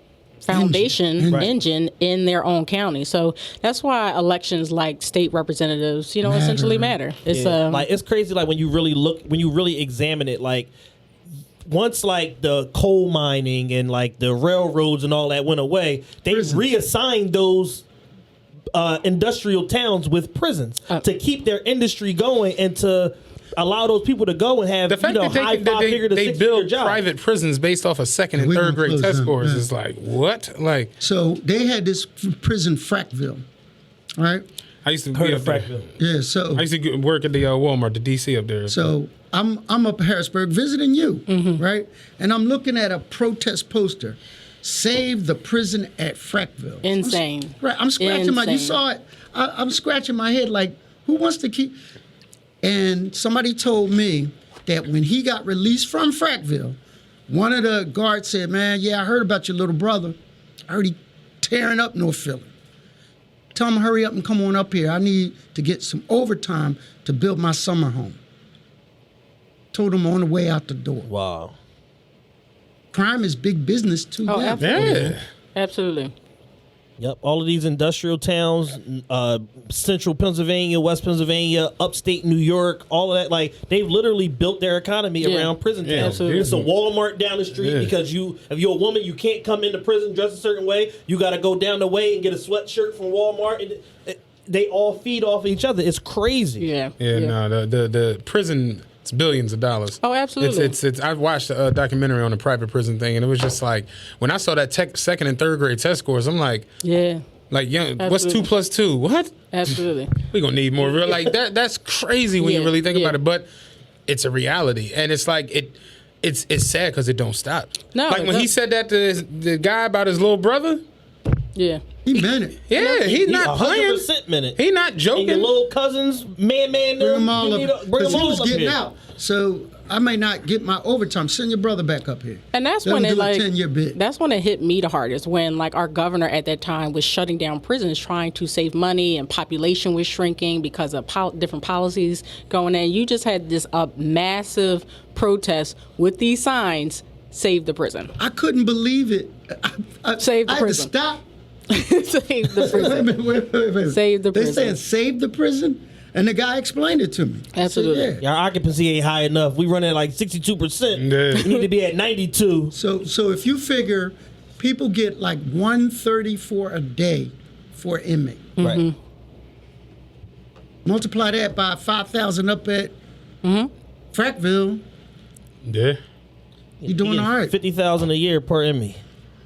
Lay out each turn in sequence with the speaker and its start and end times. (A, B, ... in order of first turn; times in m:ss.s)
0:00.4-0:07.9 A
0:00.5-0:01.5 B
0:06.2-0:07.0 B
0:07.3-0:07.6 C
0:07.7-0:10.7 D
0:11.6-0:17.8 D
0:16.3-0:16.6 B
0:18.7-0:27.0 D
0:24.9-0:30.9 C
0:28.3-0:29.6 B
0:31.0-0:33.4 B
0:34.2-0:34.4 B
0:34.8-0:35.8 C
0:35.1-0:35.9 D
0:36.0-0:36.6 B
0:36.5-0:38.9 C
0:38.7-0:51.8 B
0:41.3-0:41.6 A
0:46.8-0:48.8 A
0:52.6-1:00.2 B
1:00.7-1:02.5 B
1:03.5-1:08.2 B
1:09.7-1:11.1 B
1:11.1-1:11.6 D
1:12.9-1:15.1 B
1:14.3-1:16.1 A
1:14.6-1:15.2 C
1:17.0-1:36.6 D
1:25.2-1:26.5 A
1:25.8-1:26.7 C
1:27.6-1:27.9 C
1:36.6-1:37.3 A
1:37.0-1:46.7 C
1:40.0-1:40.8 A
1:46.8-1:47.2 A
1:47.5-1:49.4 C
1:48.0-1:48.5 A
1:49.5-1:50.2 A
1:50.3-1:53.5 C
1:50.9-1:51.2 A
1:52.4-1:53.2 A
1:54.1-2:00.8 C
1:57.9-1:58.5 A
2:01.5-2:01.8 A
2:02.0-2:02.7 B
2:02.6-2:04.0 C
2:02.9-2:04.6 D
2:04.6-2:05.5 C
2:05.1-2:08.8 D
2:07.0-2:14.0 B
2:12.5-2:28.1 A
2:28.2-2:31.2 B
2:30.2-2:30.9 A
2:31.7-2:33.1 A
2:32.6-2:38.2 B
2:33.9-2:34.8 A
2:37.5-2:38.1 A
2:38.2-2:42.7 D
2:40.9-2:41.5 C
2:41.4-2:41.6 A
2:42.7-2:48.5 B
2:48.6-2:48.9 A
2:48.6-2:48.8 D
2:50.8-2:52.9 B
2:53.4-2:53.7 A
2:54.1-2:54.8 B
2:55.6-2:56.0 C
2:56.8-2:59.0 D
2:56.8-2:57.5 B